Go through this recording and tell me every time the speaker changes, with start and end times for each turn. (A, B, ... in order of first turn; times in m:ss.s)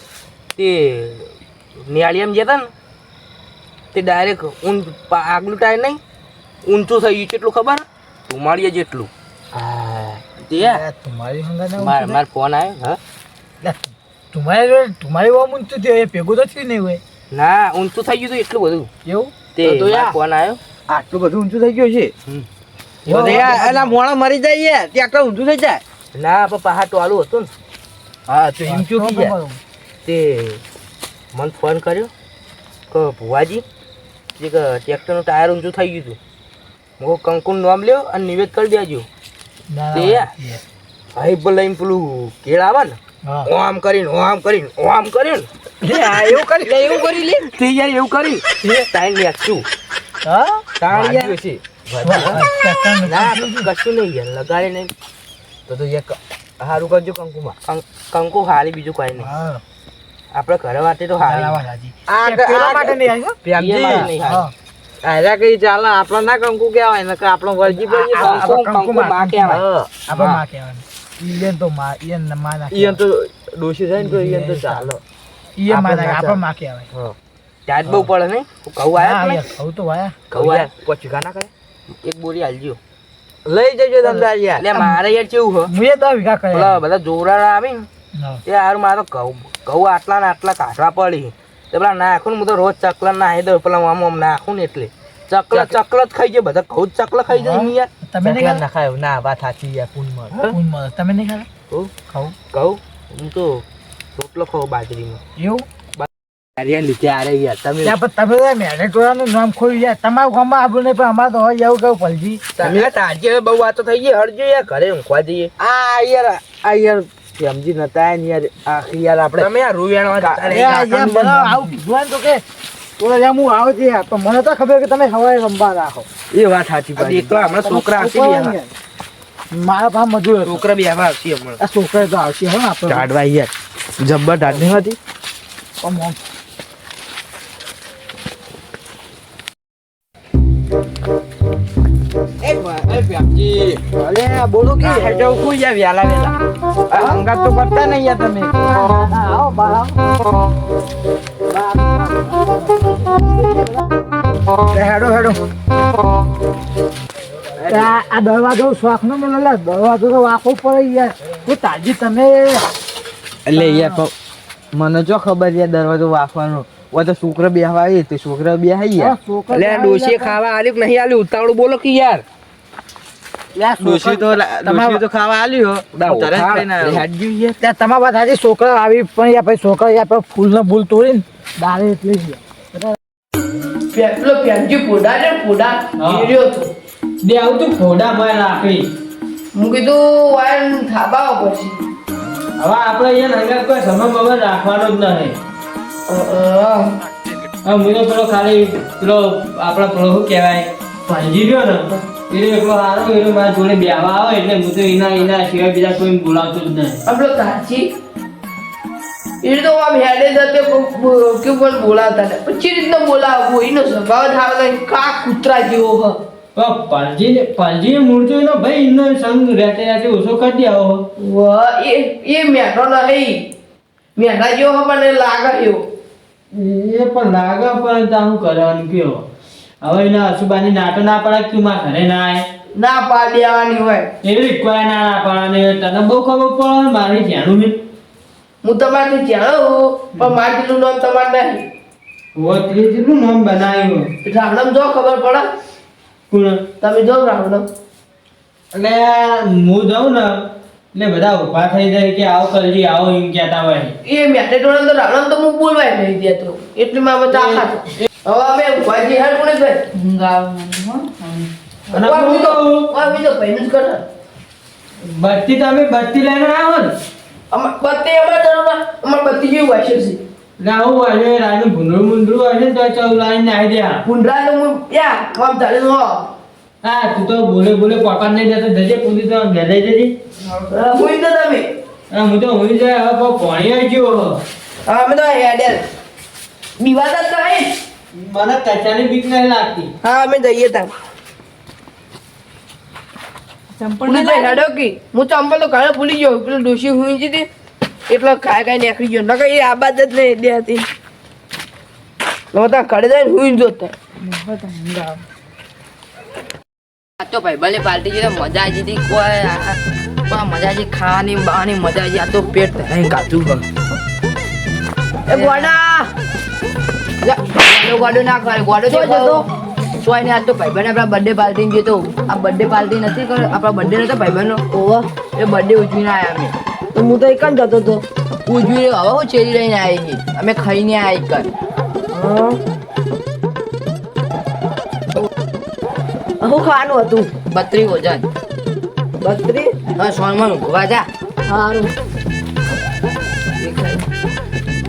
0:00.6-0:02.7 A
0:03.9-0:06.0 A
0:06.6-0:09.1 A
0:09.5-0:10.2 B
0:10.4-0:10.8 A
0:10.6-0:12.2 C
0:11.8-0:13.0 A
0:13.6-0:17.0 C
0:17.3-0:18.9 A
0:19.0-0:19.3 C
0:19.5-0:20.6 A
0:19.6-0:20.2 B
0:20.9-0:22.1 B
0:23.0-0:24.0 C
0:23.1-0:23.6 A
0:23.1-0:25.8 B
0:26.1-0:27.5 A
0:28.3-0:29.4 B
0:28.6-0:29.6 C
0:30.0-0:30.6 A
0:31.3-0:32.1 A
0:32.9-0:33.6 A
0:34.4-0:36.2 A
0:37.0-0:39.1 A
0:39.7-0:40.6 C
0:39.9-0:40.3 A
0:41.1-0:45.5 A
0:43.2-0:43.5 C
0:45.8-0:46.8 C
0:46.8-0:47.2 B
0:47.3-0:49.7 A
0:48.6-0:48.9 C
0:50.2-0:50.6 C
0:50.8-0:51.4 A
0:50.9-0:52.4 B
0:52.0-0:53.7 C
0:53.0-0:54.9 A
0:55.7-0:57.6 B
0:57.6-0:59.3 A
0:59.2-0:59.6 C
1:00.3-1:01.6 A
1:01.2-1:04.5 C
1:02.1-1:03.0 B
1:03.4-1:04.5 A
1:05.0-1:08.5 B
1:07.6-1:13.0 C
1:08.1-1:09.6 A
1:09.5-1:09.9 B
1:10.1-1:10.4 A
1:12.7-1:15.0 B
1:14.0-1:14.9 C
1:15.6-1:16.9 C
1:15.8-1:16.4 B
1:17.7-1:19.4 A
1:18.9-1:20.2 C
1:20.3-1:21.5 B
1:20.3-1:20.7 A
1:22.0-1:22.8 A
1:23.4-1:24.6 B
1:24.0-1:25.0 C
1:24.6-1:25.7 A
1:25.6-1:26.8 C
1:26.5-1:27.9 A
1:28.1-1:28.4 C
1:28.5-1:37.9 A
1:37.3-1:38.6 C
1:38.2-1:40.5 B
1:40.5-1:41.5 C
1:42.0-1:42.4 C
1:42.5-1:43.6 A
1:44.2-1:45.2 A
1:45.4-1:45.7 C
1:46.0-1:47.7 A
1:47.8-1:52.6 C
1:52.6-1:55.5 A
1:52.6-1:52.9 B
1:55.6-1:59.5 B
1:59.4-2:00.9 A
2:00.2-2:01.6 B
2:00.5-2:02.4 C
2:03.0-2:06.1 C
2:06.3-2:07.3 B
2:07.0-2:08.6 A
2:07.3-2:08.7 C
2:09.5-2:10.6 C
2:10.4-2:11.6 A
2:11.6-2:13.1 C
2:12.9-2:15.0 B
2:14.4-2:14.7 C
2:15.8-2:16.2 C
2:22.4-2:23.8 B
2:23.9-2:25.2 C
2:24.8-2:26.4 B
2:26.9-2:28.7 B
2:26.9-2:27.2 C
2:28.7-2:30.0 C
2:31.5-2:33.5 C
2:34.7-2:35.4 C
2:37.6-2:37.9 B
2:37.6-2:42.6 C
2:43.5-2:44.0 C
2:43.5-2:44.1 B
2:44.7-2:49.1 B
2:48.9-2:50.4 C
2:49.5-2:52.2 A
2:53.5-2:55.0 C
2:53.8-2:57.1 B
2:56.0-2:57.6 A
2:57.6-3:03.0 C
3:03.9-3:06.7 D
3:06.0-3:06.2 E
3:07.2-3:08.9 E
3:09.5-3:11.9 D
3:12.6-3:15.4 E
3:16.1-3:17.0 D
3:17.6-3:27.0 E
3:27.0-3:27.9 D
3:29.4-3:36.2 D
3:36.6-3:41.0 E
3:41.2-3:43.4 D
3:44.2-3:45.8 D
3:46.5-3:49.2 E
3:49.8-3:52.4 E
3:52.7-3:54.1 D
3:54.2-3:57.8 E
3:58.6-4:01.7 D
4:02.4-4:04.1 E
4:04.2-4:05.5 D
4:06.3-4:06.6 E
4:06.8-4:07.6 D
4:08.7-4:10.4 E
4:10.9-4:13.9 E
4:14.0-4:19.9 D
4:19.9-4:21.3 F
4:21.9-4:24.0 D
4:21.9-4:22.9 E
4:25.0-4:26.9 E
4:27.5-4:30.2 D
4:30.6-4:34.0 E
4:34.0-4:36.3 D
4:36.8-4:40.1 E
4:40.4-4:41.7 D
4:42.1-4:44.4 E
4:44.8-4:45.8 D
4:46.8-4:47.8 D
4:48.2-4:49.9 E
4:50.0-4:50.9 D
4:54.0-4:54.5 F
4:54.0-4:57.5 D
4:58.1-5:00.9 D
5:02.5-5:04.0 D
5:07.2-5:09.8 F
5:10.3-5:13.6 F
5:15.3-5:16.0 D
5:15.3-5:16.0 F
5:17.2-5:19.4 F
5:18.9-5:19.4 D
5:20.0-5:24.7 F
5:24.7-5:25.0 D
5:25.3-5:26.5 F
5:26.9-5:28.0 D
5:28.4-5:31.5 F
5:32.1-5:32.6 D
5:36.4-5:37.3 D
5:37.4-5:38.2 F
5:39.2-5:39.7 D
5:39.8-5:41.1 F
5:41.5-5:41.9 D
5:43.6-5:44.0 F